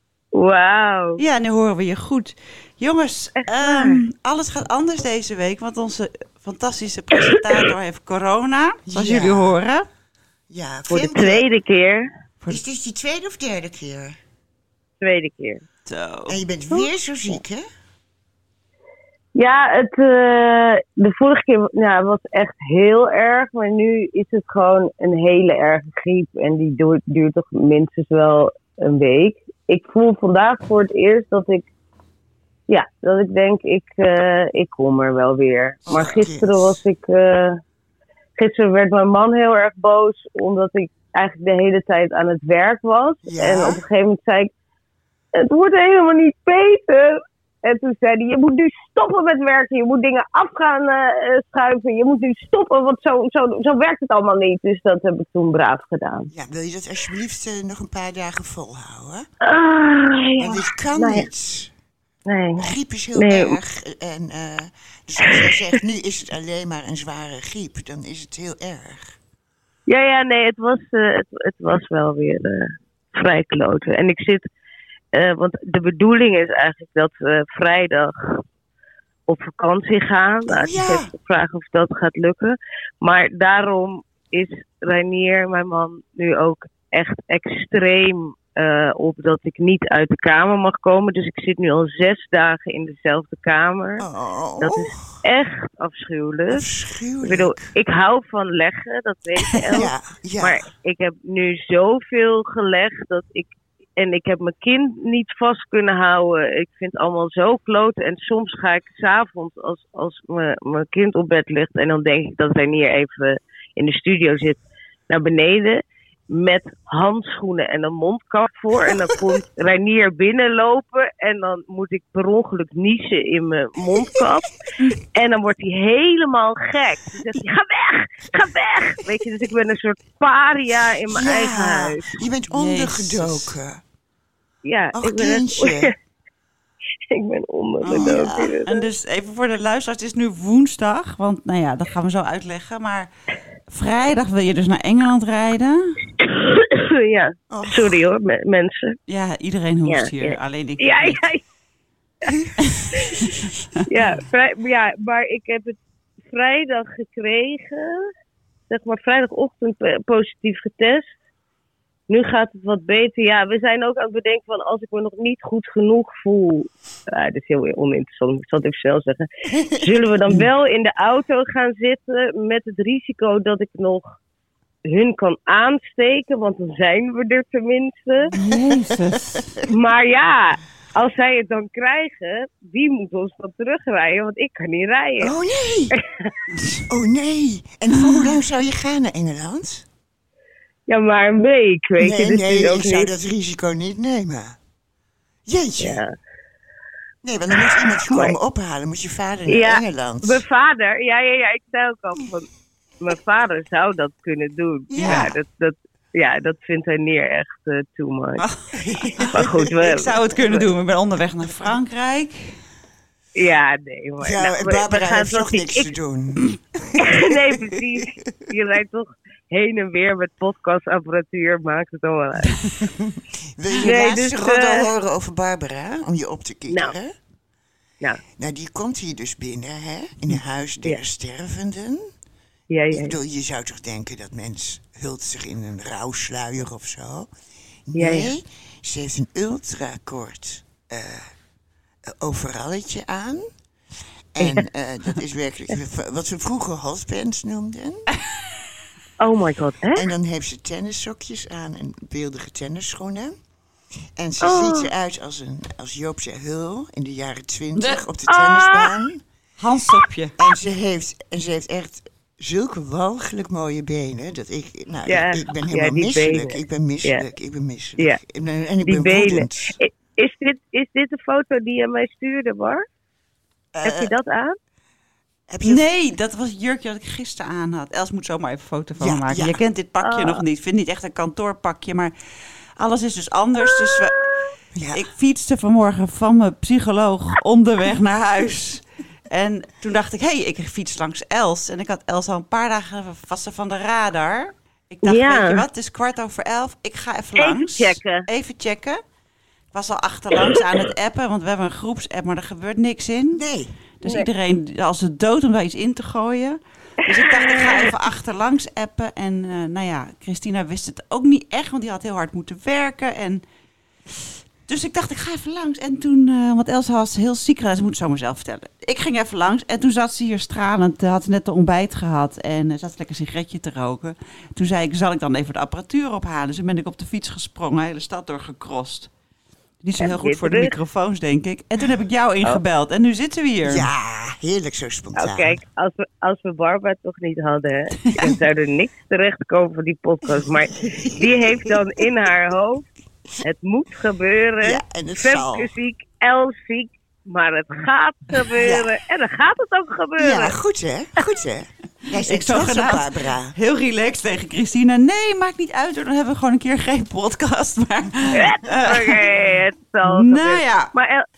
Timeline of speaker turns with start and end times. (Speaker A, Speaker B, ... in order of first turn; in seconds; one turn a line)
Speaker A: 0.3-1.2
Speaker B: 1.2-9.9
Speaker A: 3.4-4.0
Speaker C: 8.9-9.6
Speaker C: 10.5-11.5
Speaker A: 10.9-12.1
Speaker C: 12.5-14.2
Speaker A: 15.0-15.6
Speaker B: 15.9-16.4
Speaker C: 16.3-17.6
Speaker A: 19.3-31.6
Speaker A: 32.7-37.6
Speaker C: 35.9-36.8
Speaker A: 38.4-44.5
Speaker C: 43.2-43.8
Speaker A: 45.3-56.3
Speaker C: 56.3-59.2
Speaker A: 59.4-61.3
Speaker C: 60.4-61.7
Speaker A: 62.2-63.6
Speaker C: 62.6-69.2
Speaker A: 69.9-74.5
Speaker A: 75.1-78.4
Speaker A: 79.3-94.0
Speaker C: 80.5-81.1
Speaker C: 94.0-95.2
Speaker A: 94.6-96.6
Speaker C: 96.5-97.7
Speaker A: 97.2-114.6
Speaker C: 99.7-100.6
Speaker A: 115.1-124.5
Speaker C: 123.9-124.3
Speaker A: 125.1-132.2
Speaker C: 131.1-133.8
Speaker B: 132.5-133.5
Speaker A: 134.6-135.9
Speaker C: 134.9-135.9
Speaker A: 137.1-138.8
Speaker B: 137.8-143.1
Speaker C: 137.9-138.6
Speaker B: 143.7-146.0
Speaker A: 146.2-149.0
Speaker C: 147.5-148.0
Speaker B: 149.1-151.2
Speaker A: 149.9-151.4
Speaker C: 152.2-153.5
Speaker A: 153.9-155.8
Speaker A: 156.3-158.1
Speaker A: 158.7-161.1
Speaker A: 162.1-174.2
Speaker A: 174.9-178.3
Speaker B: 178.3-179.5
Speaker C: 178.4-178.9
Speaker A: 179.7-185.3
Speaker C: 185.2-186.0
Speaker A: 185.9-186.3
Speaker C: 186.9-189.9
Speaker A: 190.9-193.1
Speaker C: 192.0-194.6
Speaker C: 195.4-196.0
Speaker A: 195.8-196.1
Speaker C: 197.2-200.4
Speaker A: 197.6-198.3
Speaker A: 199.5-202.5
Speaker A: 203.0-208.4
Speaker C: 204.9-205.3
Speaker B: 205.0-205.3
Speaker C: 208.7-209.8
Speaker B: 209.2-212.6
Speaker A: 209.3-210.6
Speaker A: 213.3-215.9
Speaker C: 214.2-218.0
Speaker A: 217.0-222.5
Speaker C: 222.8-227.1
Speaker A: 223.8-224.9
Speaker A: 226.7-226.9
Speaker C: 228.4-232.1
Speaker A: 232.7-233.1
Speaker C: 232.9-237.3
Speaker C: 237.9-241.3
Speaker A: 237.9-238.3
Speaker C: 242.1-243.5
Speaker C: 244.3-248.0
Speaker A: 249.2-250.1
Speaker C: 249.9-253.3
Speaker C: 254.2-259.2
Speaker A: 254.4-254.9
Speaker A: 258.3-258.9
Speaker B: 259.6-260.3
Speaker C: 260.4-269.8
Speaker A: 265.1-267.2
Speaker A: 268.8-272.8
Speaker C: 273.7-274.1
Speaker A: 273.8-274.5
Speaker C: 275.5-275.9
Speaker B: 275.6-282.1
Speaker C: 279.0-279.6
Speaker A: 280.0-280.4
Speaker B: 282.8-284.2
Speaker C: 284.7-285.1
Speaker B: 284.9-299.0
Speaker A: 295.0-295.6
Speaker A: 297.4-298.2
Speaker B: 299.7-303.4
Speaker C: 303.3-303.8
Speaker B: 304.0-313.4
Speaker A: 307.3-307.9
Speaker B: 314.7-329.1
Speaker B: 329.8-333.9
Speaker A: 330.0-330.7
Speaker C: 333.6-335.6
Speaker A: 335.1-342.8
Speaker C: 340.3-341.8
Speaker A: 343.4-350.5
Speaker C: 344.6-345.7
Speaker C: 348.5-348.9
Speaker C: 350.2-353.5
Speaker B: 352.2-359.2
Speaker A: 358.3-361.2
Speaker B: 360.0-360.9